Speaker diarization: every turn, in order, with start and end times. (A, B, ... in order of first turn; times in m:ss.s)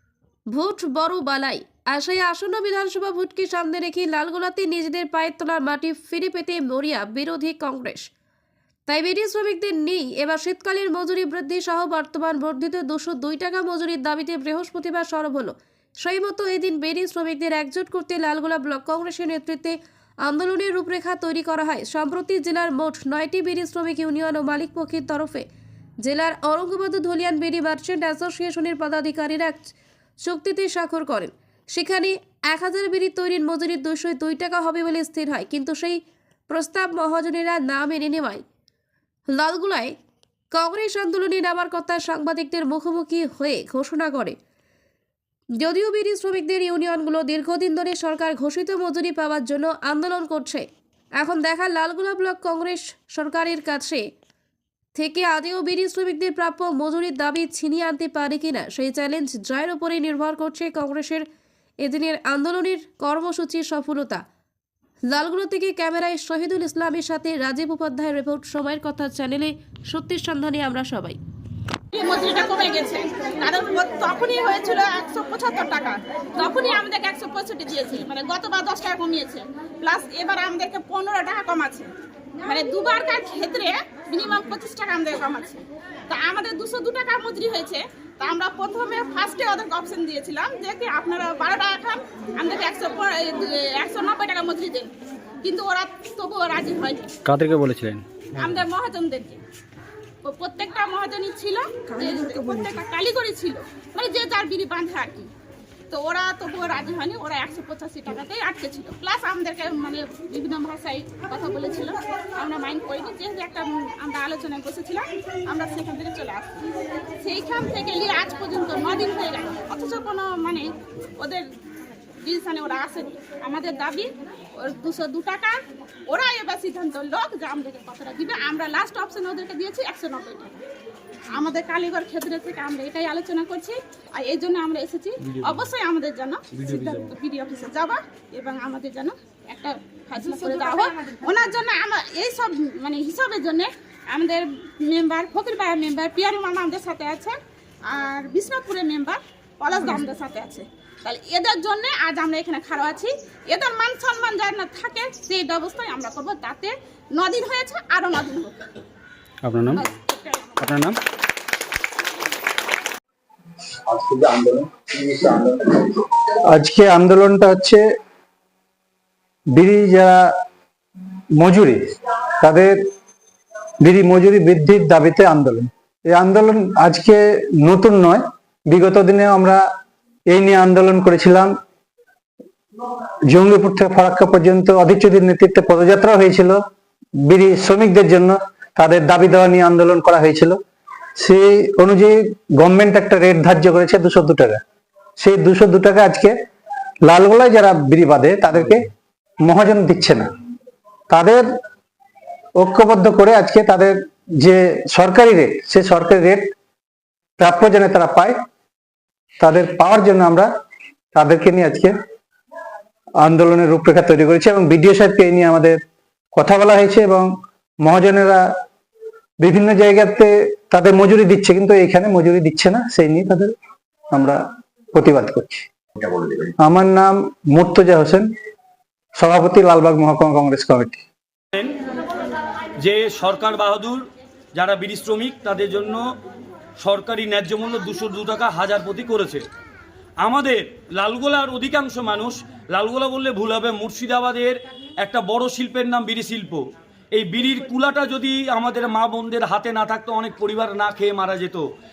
0:00.5-0:08.1 A
0:08.9-0:25.4 A
0:26.0-0:38.4 A
0:39.3-0:40.0 A
0:40.5-0:44.4 A
0:45.6-0:54.0 A
0:55.0-1:01.2 A
1:01.8-1:04.2 A
1:05.1-1:11.2 A
1:11.9-1:21.9 B
1:22.4-1:37.1 B
1:37.2-1:38.6 C
1:38.4-1:39.4 B
1:40.2-1:45.3 B
1:45.9-1:56.6 B
1:57.2-2:00.7 B
2:01.2-2:01.4 B
2:02.2-2:04.1 B
2:04.6-2:05.6 B
2:06.1-2:10.6 B
2:11.3-2:27.4 B
2:15.2-2:15.7 D
2:16.5-2:17.2 D
2:27.9-2:38.6 B
2:39.4-2:39.9 C
2:39.7-2:40.6 B
2:40.6-2:41.0 C
2:43.9-2:47.8 E
2:49.5-2:50.3 E
2:51.3-2:52.8 E
2:53.8-2:59.6 E
3:00.3-3:01.5 E
3:03.3-3:06.6 E
3:07.2-3:10.6 E
3:11.2-3:14.6 E
3:15.2-3:16.4 E
3:17.0-3:18.9 E
3:19.4-3:20.3 E
3:21.1-3:21.4 E
3:22.6-3:26.5 E
3:27.4-3:28.4 E
3:29.4-3:30.5 E
3:31.1-3:31.9 E
3:33.2-3:35.8 E
3:36.3-3:38.5 E
3:39.4-3:43.5 E
3:44.1-3:48.3 E
3:49.2-3:51.0 E
3:52.8-3:54.0 D
3:54.6-3:56.0 D
3:56.8-3:59.4 D
4:00.2-4:06.6 D
4:07.1-4:11.6 D